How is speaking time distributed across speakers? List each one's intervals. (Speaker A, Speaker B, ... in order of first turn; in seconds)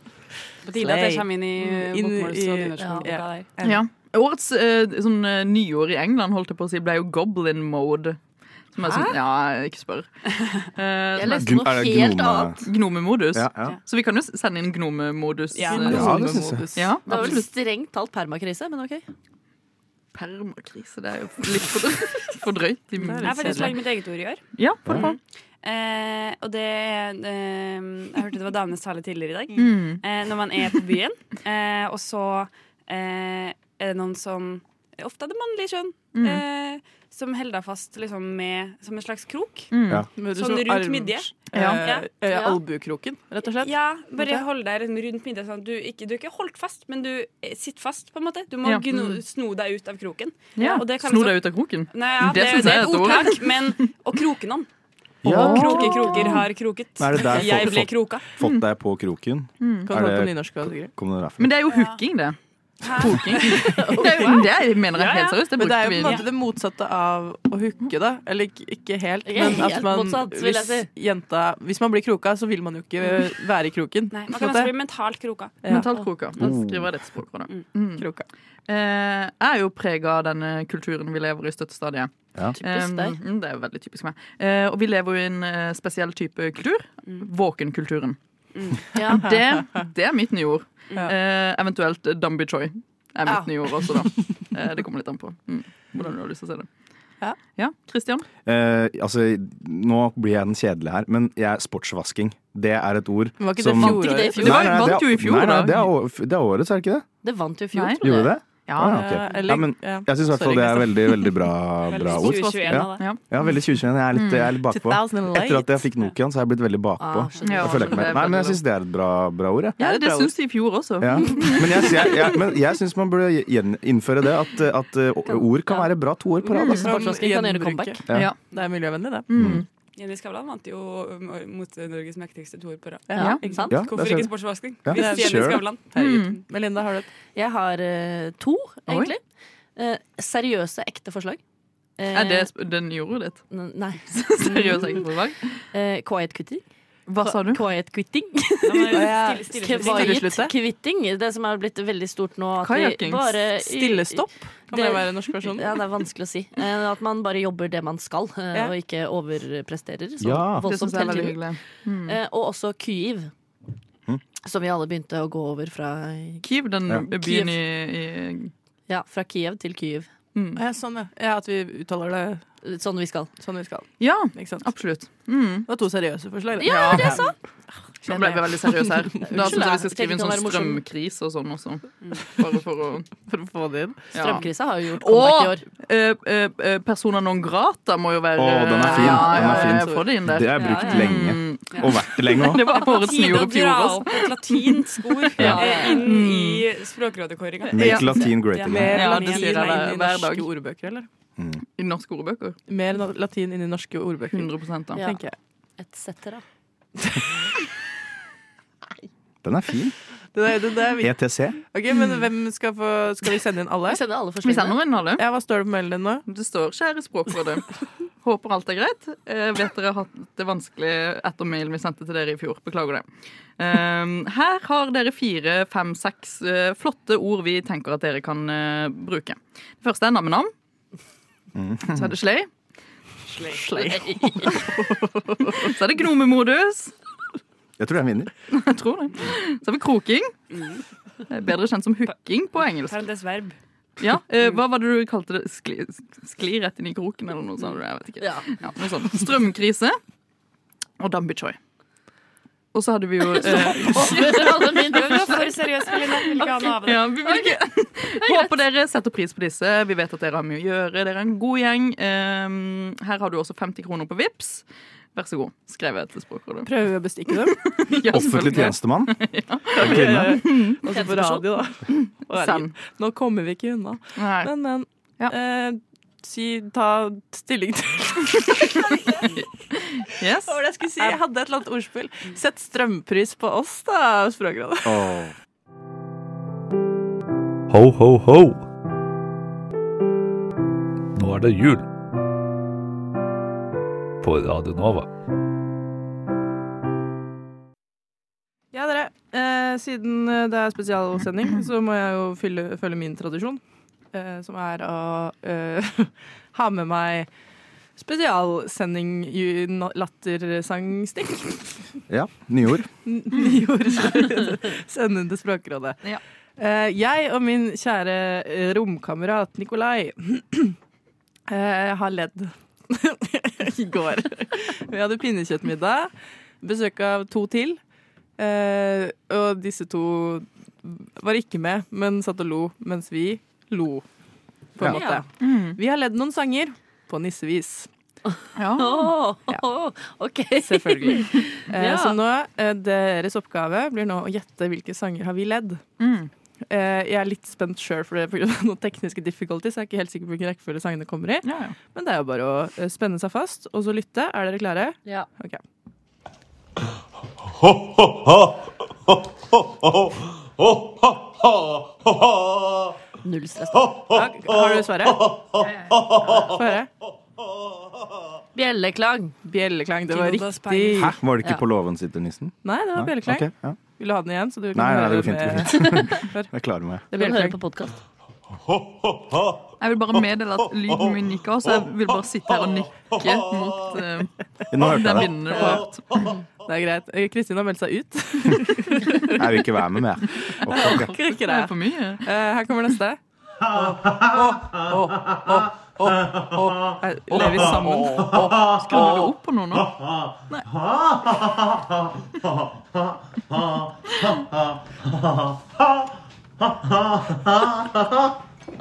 Speaker A: 0.6-3.5, 15.5-15.9, 23.2-39.7, 40.2-42.1, 43.6-54.7, 55.3-58.3, 61.7-62.0, 62.8-63.7, 64.9-65.4, 74.1-75.6, 88.5-88.9, 111.9-113.1, 130.0-135.9, 148.6-150.2, 191.7-192.0, 192.6-199.9, 233.3-233.6, 240.5-240.8, 242.8-243.6, 254.9-257.4, 365.6-365.9, 370.1-371.1
Speaker B: 0.8-3.8, 15.7-17.0, 23.0-23.8, 40.2-44.5, 59.9-60.9, 65.6-74.7, 75.6-75.9, 78.0-78.2, 93.3-93.9, 103.4-104.6, 108.9-111.3, 114.7-115.9, 119.8-120.3, 126.7-129.3, 133.1-133.7, 134.9-137.1, 148.9-150.6, 153.6-155.8, 170.6-172.4, 173.4-174.7, 175.7-177.3, 178.0-179.5, 183.2-184.0, 188.9-190.0, 198.6-201.1, 202.7-205.3, 210.3-211.1, 211.7-214.0, 215.2-216.2, 233.4-235.7, 266.6-267.6, 269.8-279.2, 280.5-285.1, 298.7-303.6, 304.1-307.3, 308.0-311.8, 313.1-316.0, 316.6-320.8, 321.5-327.8, 328.4-334.1, 334.8-337.9, 340.6-345.8, 346.7-355.6, 364.1-365.3, 366.4-366.9, 369.4-371.2, 372.6-376.5, 377.1-377.6, 385.5-385.8, 386.6-389.4, 390.7-393.2, 393.8-399.3
Speaker C: 2.8-3.1, 8.8-9.2, 11.2-12.6, 17.1-19.0, 42.3-42.6, 55.9-56.3, 63.6-64.5, 69.3-70.9, 82.5-83.2, 88.9-89.6, 103.8-104.9, 107.2-108.4, 117.0-118.0, 125.3-125.9, 126.5-128.0, 133.2-133.9, 137.3-139.2, 139.8-141.4, 142.0-142.5, 143.5-145.1, 145.7-146.6, 147.2-161.5, 162.1-163.3, 164.4-166.4, 167.2-167.6, 168.9-170.1, 172.6-173.3, 176.6-177.3, 179.2-180.8, 184.2-185.6, 190.6-191.1, 195.4-196.1, 205.8-206.4, 213.9-214.8, 233.8-234.5, 248.2-248.5, 253.3-255.5, 258.2-258.6, 334.8-335.2, 338.8-342.2, 363.2-364.0, 368.6-369.4, 377.1-377.9
Speaker D: 3.6-8.2, 8.7-10.1, 10.8-11.6, 12.6-16.1, 16.8-17.5, 20.1-23.8, 24.6-25.2, 29.6-30.0, 36.1-36.4, 39.7-40.1, 41.5-41.8, 48.6-49.2, 50.6-53.9, 55.3-56.5, 59.6-59.9, 61.4-62.4, 62.9-66.2, 75.7-78.1, 78.7-88.2, 89.1-96.7, 97.6-98.3, 104.3-105.9, 107.7-108.0, 108.7-109.0, 113.0-113.2, 114.1-114.5, 117.4-118.6, 119.8-122.1, 126.5-126.9, 129.3-129.7, 133.2-133.4, 135.9-136.4, 138.9-139.1, 142.1-143.4, 144.1-145.6, 147.1-147.6, 152.6-153.4, 160.6-162.2, 166.4-168.5, 170.3-170.6, 174.0-175.7, 176.6-177.3, 178.1-183.1, 184.1-196.7, 197.7-198.3, 198.9-200.5, 201.8-202.6, 204.3-205.0, 214.4-215.2, 216.3-217.7, 218.2-223.1, 223.6-230.5, 231.9-232.5, 235.6-236.9, 238.5-240.4, 241.3-243.0, 244.0-250.0, 251.0-251.6, 252.7-266.7, 267.5-272.7, 274.2-274.5, 279.8-280.6, 335.4-335.8, 338.6-339.2, 346.0-346.3, 351.4-351.8, 379.8-386.2, 390.8-392.2, 397.3-399.9
Speaker E: 11.3-12.6, 13.3-13.8, 15.9-16.7, 55.2-55.8, 57.0-61.5, 76.4-76.9, 98.5-107.1, 108.0-119.8, 121.0-126.8, 129.3-129.6, 133.7-134.3, 134.8-135.6, 160.2-160.7, 188.4-192.7, 197.7-199.0, 209.4-209.9, 211.0-211.6, 231.6-232.1, 237.8-238.3, 268.1-269.2, 269.8-270.4, 284.9-285.3, 312.1-312.9, 371.0-373.8, 374.7-377.1, 384.7-385.4, 389.3-391.1
Speaker F: 287.7-288.6, 291.2-291.9, 294.2-295.1